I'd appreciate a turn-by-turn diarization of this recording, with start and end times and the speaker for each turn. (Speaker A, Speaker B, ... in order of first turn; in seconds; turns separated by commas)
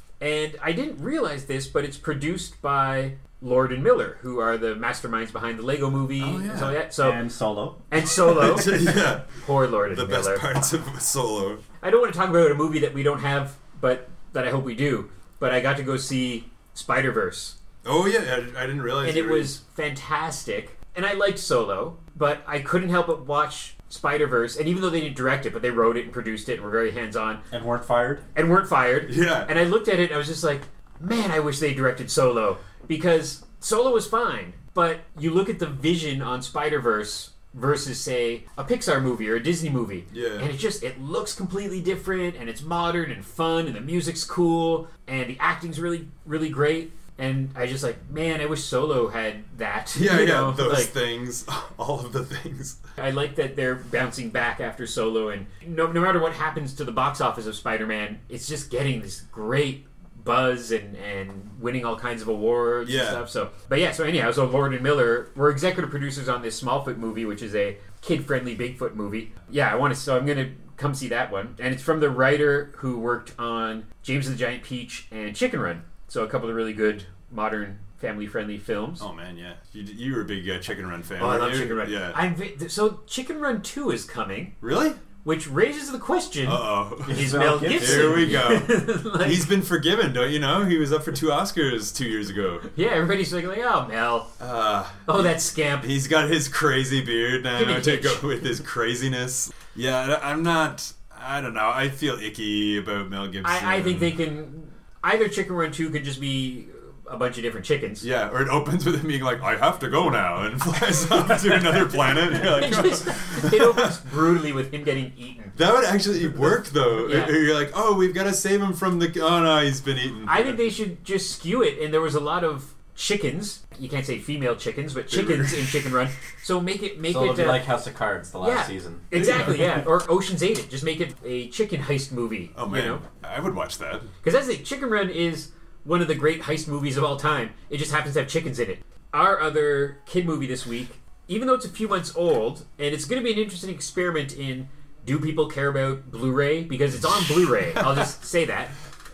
Speaker A: 0.2-7.2, Speaker B: 6.2-6.8, Speaker C: 7.0-7.8, Speaker A: 7.9-10.4, Speaker B: 8.1-11.6, Speaker A: 11.8-17.6, Speaker B: 17.8-19.5, Speaker A: 19.0-27.4, Speaker C: 27.5-28.3, Speaker A: 28.3-50.9, Speaker B: 29.1-29.5, Speaker B: 40.1-40.5, Speaker B: 49.9-52.8, Speaker A: 53.0-79.0, Speaker B: 62.8-63.2, Speaker B: 79.0-82.2, Speaker A: 81.2-84.5, Speaker B: 84.6-85.0, Speaker A: 85.2-89.5, Speaker B: 86.4-92.7, Speaker C: 87.1-88.5, Speaker A: 92.7-94.3, Speaker B: 94.4-104.2, Speaker A: 95.1-95.9, Speaker A: 97.5-98.2, Speaker A: 103.4-108.0, Speaker B: 108.0-114.0, Speaker A: 112.4-115.5, Speaker B: 115.5-120.6, Speaker A: 117.0-117.3, Speaker A: 120.2-127.7, Speaker B: 125.1-126.0, Speaker C: 127.0-129.1, Speaker A: 128.4-133.0, Speaker B: 129.1-129.8, Speaker B: 132.5-134.1, Speaker A: 134.2-148.7, Speaker B: 147.4-148.1